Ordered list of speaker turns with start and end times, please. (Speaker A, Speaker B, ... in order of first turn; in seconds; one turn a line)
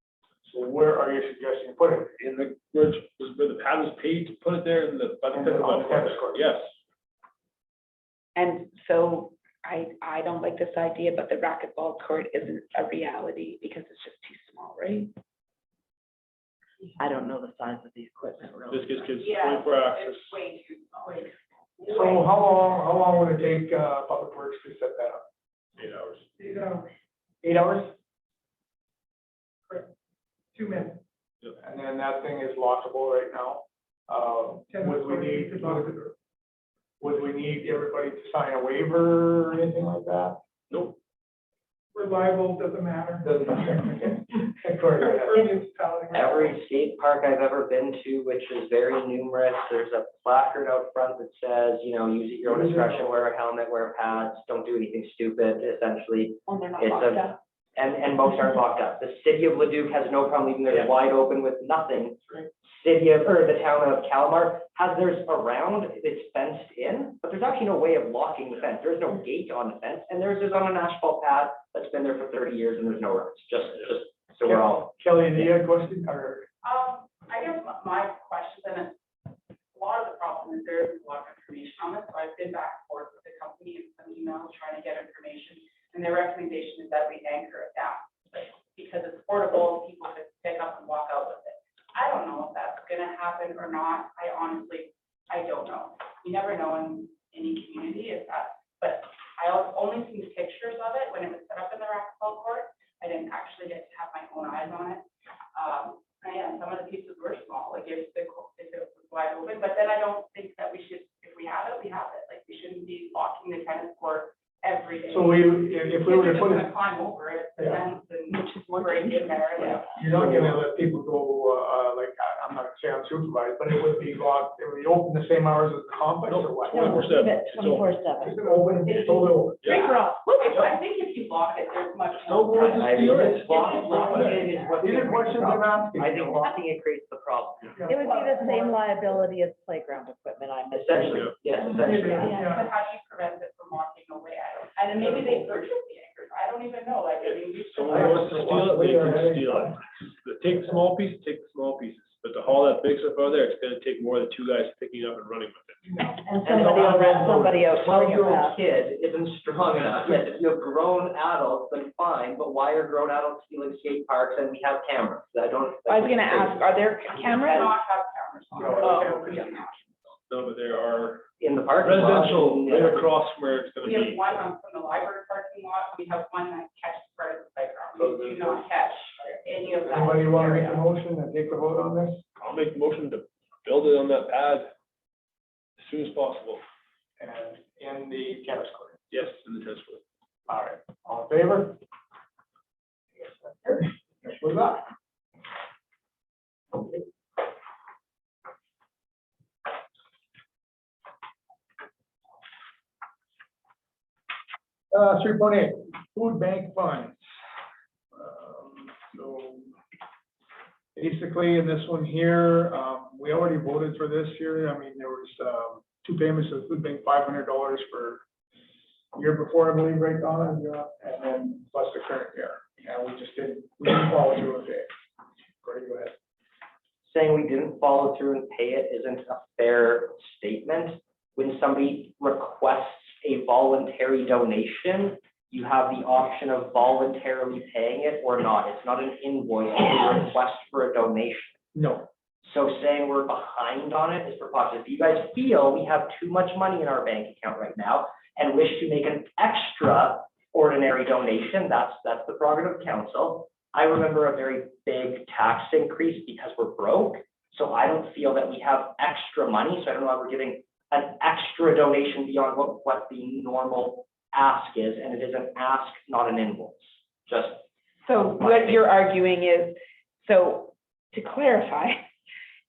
Speaker A: 0.5-2.1
Speaker B: 2.2-6.7
Speaker A: 5.3-6.5
Speaker C: 8.4-15.1
Speaker D: 17.0-19.7
Speaker B: 18.7-20.4
Speaker E: 20.6-21.2
Speaker A: 21.9-25.2
Speaker B: 25.8-26.2
Speaker F: 26.4-26.9
Speaker A: 27.4-27.9
Speaker F: 30.5-31.0
Speaker A: 31.6-36.0
Speaker F: 34.7-36.1
Speaker A: 37.0-40.4
Speaker B: 40.7-41.0
Speaker F: 41.9-44.2
Speaker A: 43.2-45.5
Speaker F: 44.9-46.5
Speaker G: 46.1-74.9
Speaker A: 52.5-53.1
Speaker C: 56.5-57.4
Speaker A: 74.4-76.5
Speaker E: 76.6-79.0
Speaker E: 79.7-120.5
Speaker A: 115.1-116.7
Speaker A: 117.6-117.9
Speaker D: 118.5-120.3
Speaker A: 119.9-127.0
Speaker B: 126.3-128.0
Speaker D: 126.7-129.1
Speaker A: 128.2-129.7
Speaker E: 128.9-134.6
Speaker B: 129.6-129.9
Speaker D: 129.7-130.6
Speaker B: 130.5-130.8
Speaker B: 132.1-134.5
Speaker G: 132.5-137.8
Speaker A: 134.8-136.6
Speaker D: 137.8-142.5
Speaker G: 140.7-142.3
Speaker B: 141.0-141.4
Speaker F: 141.8-142.7
Speaker E: 142.3-148.8
Speaker B: 147.2-155.8
Speaker A: 147.9-149.8
Speaker D: 156.3-158.6
Speaker G: 156.4-166.7
Speaker C: 156.5-158.2
Speaker C: 165.9-167.7
Speaker E: 167.1-169.8
Speaker A: 168.6-169.4
Speaker B: 170.3-171.2
Speaker G: 171.4-173.1
Speaker B: 171.8-174.4
Speaker E: 173.8-180.9
Speaker A: 178.0-178.7
Speaker A: 179.8-182.2
Speaker B: 182.4-184.7
Speaker B: 185.8-186.6
Speaker A: 187.2-189.0
Speaker B: 189.1-190.0
Speaker A: 190.5-191.8
Speaker A: 193.2-194.9
Speaker A: 204.9-207.2
Speaker A: 208.1-209.8
Speaker A: 211.0-218.2
Speaker A: 219.2-224.9
Speaker A: 225.6-226.1
Speaker G: 227.1-241.6
Speaker A: 241.8-242.1
Speaker G: 242.4-267.6
Speaker C: 268.1-272.0
Speaker G: 268.4-268.8